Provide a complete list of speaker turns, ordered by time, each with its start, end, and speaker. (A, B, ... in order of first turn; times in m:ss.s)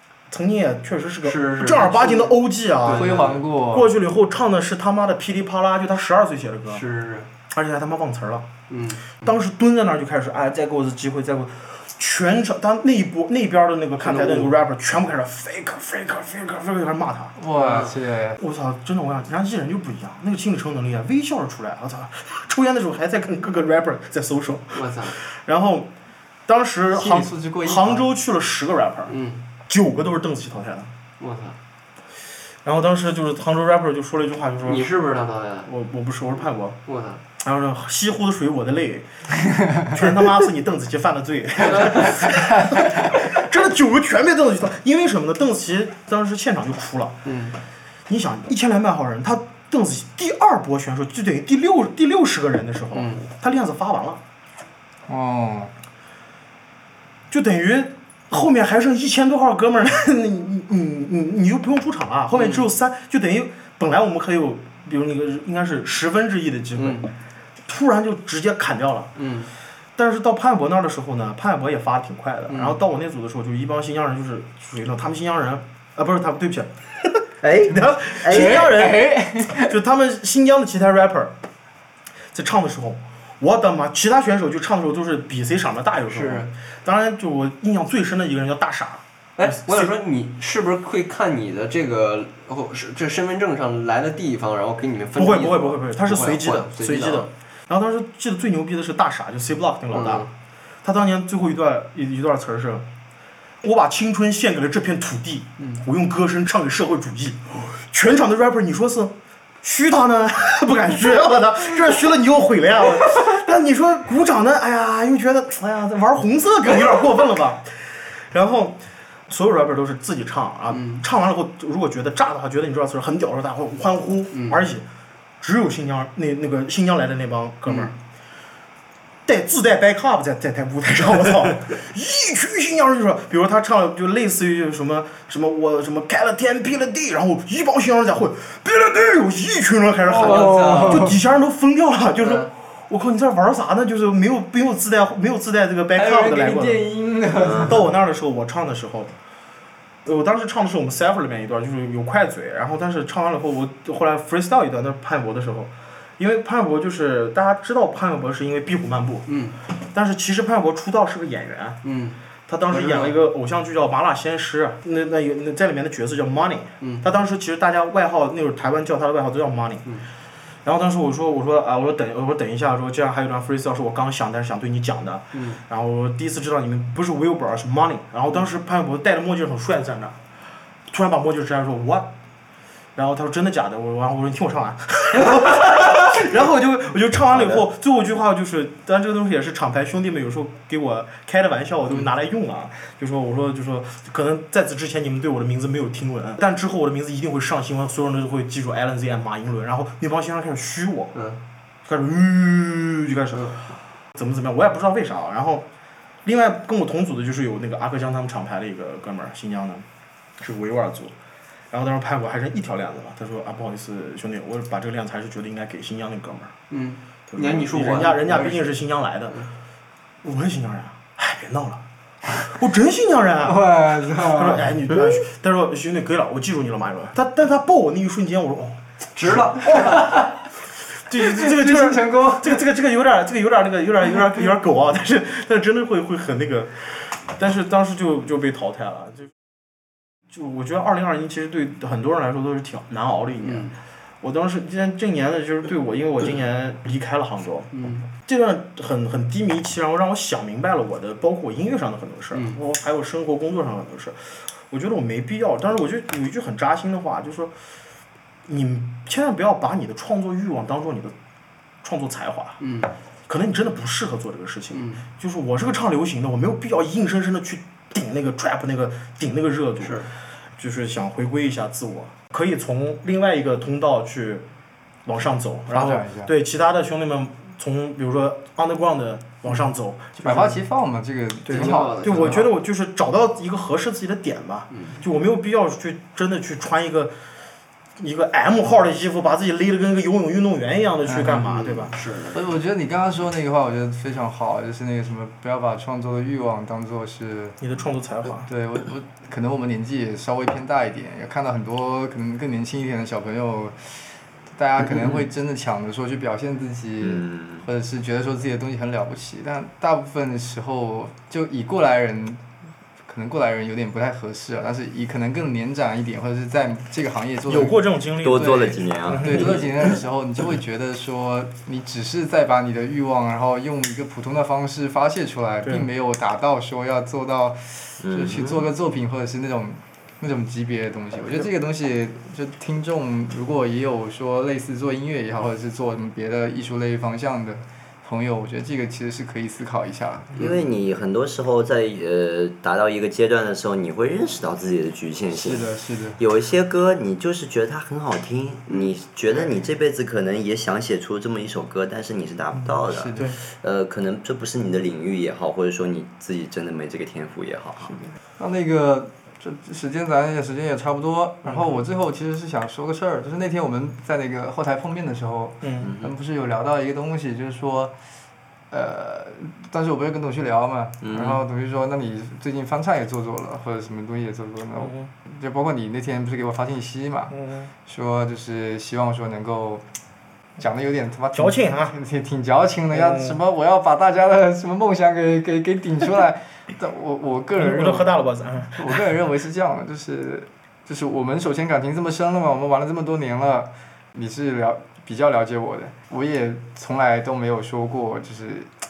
0:00.3-0:03.2 A
0:01.2-0:03.4 B
0:02.9-0:03.9 C
0:03.7-0:06.8 A
0:06.7-0:07.3 B
0:07.5-0:08.5 A
0:08.7-0:09.3 B
0:09.2-0:17.4 A
0:14.0-0:14.6 B
0:17.4-0:18.4 C
0:17.6-0:17.9 B
0:18.4-0:25.9 A
0:24.6-0:25.2 B
0:26.5-0:29.2 A
0:26.9-0:28.1 C
0:29.1-0:29.4 B
0:29.7-0:30.9 A
0:31.2-0:31.6 B
0:32.6-0:34.9 A
0:34.6-0:35.7 B
0:35.6-0:36.8 A
0:36.9-0:37.2 B
0:37.4-0:39.1 A
0:39.8-0:47.2 A
0:41.6-0:42.3 B
0:47.2-0:47.6 B
0:48.1-0:54.2 A
0:52.9-0:53.2 B
0:55.1-0:55.7 C
0:57.3-1:07.1 A
1:02.3-1:02.7 B
1:06.8-1:07.1 B
1:07.7-1:09.1 A
1:09.2-1:09.5 B
1:10.0-1:16.7 A
1:12.5-1:12.8 B
1:17.4-1:18.9 D
1:17.7-1:19.1 A
1:18.3-1:19.8 C
1:19.6-1:21.3 A
1:22.3-1:29.9 A
1:26.1-1:26.5 B
1:29.4-1:37.3 B
1:35.2-1:40.3 A
1:39.9-1:40.3 B
1:40.8-1:42.8 A
1:43.6-2:04.8 A
1:45.6-1:45.8 B
2:00.7-2:01.0 B
2:04.3-2:04.6 B
2:05.4-2:08.0 A
2:07.7-2:08.0 B
2:09.3-2:29.1 A
2:20.0-2:21.2 C
2:20.1-2:21.1 B
2:22.2-2:22.5 B
2:25.9-2:27.9 C
2:30.0-2:39.3 A
2:39.3-2:39.6 B
2:39.8-2:41.8 A
2:41.8-2:42.2 B
2:42.5-2:49.9 A
2:42.7-2:43.2 B
2:50.6-3:00.2 A
2:55.3-2:55.6 B
3:00.9-3:02.1 A
3:03.0-3:21.2 A
3:21.1-3:21.4 B
3:21.8-3:25.7 A
3:26.2-3:29.8 A
3:30.4-3:31.1 A
3:31.7-3:36.5 A
3:36.7-3:38.8 B
3:37.3-3:39.4 A
3:40.2-3:41.8 A
3:42.4-3:49.5 A
3:43.4-3:44.8 C
3:49.2-3:50.1 B
3:49.6-3:50.3 C
3:51.1-3:59.3 A
3:51.2-3:52.6 C
4:00.3-4:17.5 A
4:03.4-4:03.8 B
4:07.7-4:08.1 B
4:12.3-4:12.6 B
4:18.5-4:21.1 A
4:21.8-4:22.6 A
4:22.6-4:22.9 B
4:23.3-4:30.0 A
4:24.7-4:25.0 B
4:29.8-4:30.1 B
4:30.6-4:34.4 A
4:35.0-4:40.6 A
4:35.7-4:36.3 C
4:40.2-4:42.5 C
4:41.4-4:47.1 A
4:41.5-4:42.5 B
4:44.7-4:45.0 B
4:48.0-4:51.9 A
4:51.1-4:51.7 C
4:51.4-4:52.4 B
4:52.3-4:57.6 C
4:57.6-4:58.5 A
4:58.3-5:12.4 C
5:07.0-5:07.7 D
5:13.1-5:40.6 C
5:17.5-5:19.5 A
5:18.2-5:20.0 D
5:25.6-5:25.9 A
5:28.0-5:28.7 D
5:40.4-5:58.0 D
5:45.3-5:46.2 C
5:52.6-5:53.4 A
5:52.9-5:53.3 C
5:57.8-6:07.9 C
6:01.4-6:01.8 A
6:05.6-6:05.9 A
6:05.8-6:06.1 D
6:08.7-6:17.3 C
6:11.0-6:11.4 D
6:14.8-6:15.1 A
6:17.3-6:17.7 A
6:17.9-6:19.8 C
6:20.6-6:28.1 C
6:21.3-6:22.0 A
6:22.9-6:23.4 A
6:27.6-6:29.1 A
6:28.7-6:38.7 C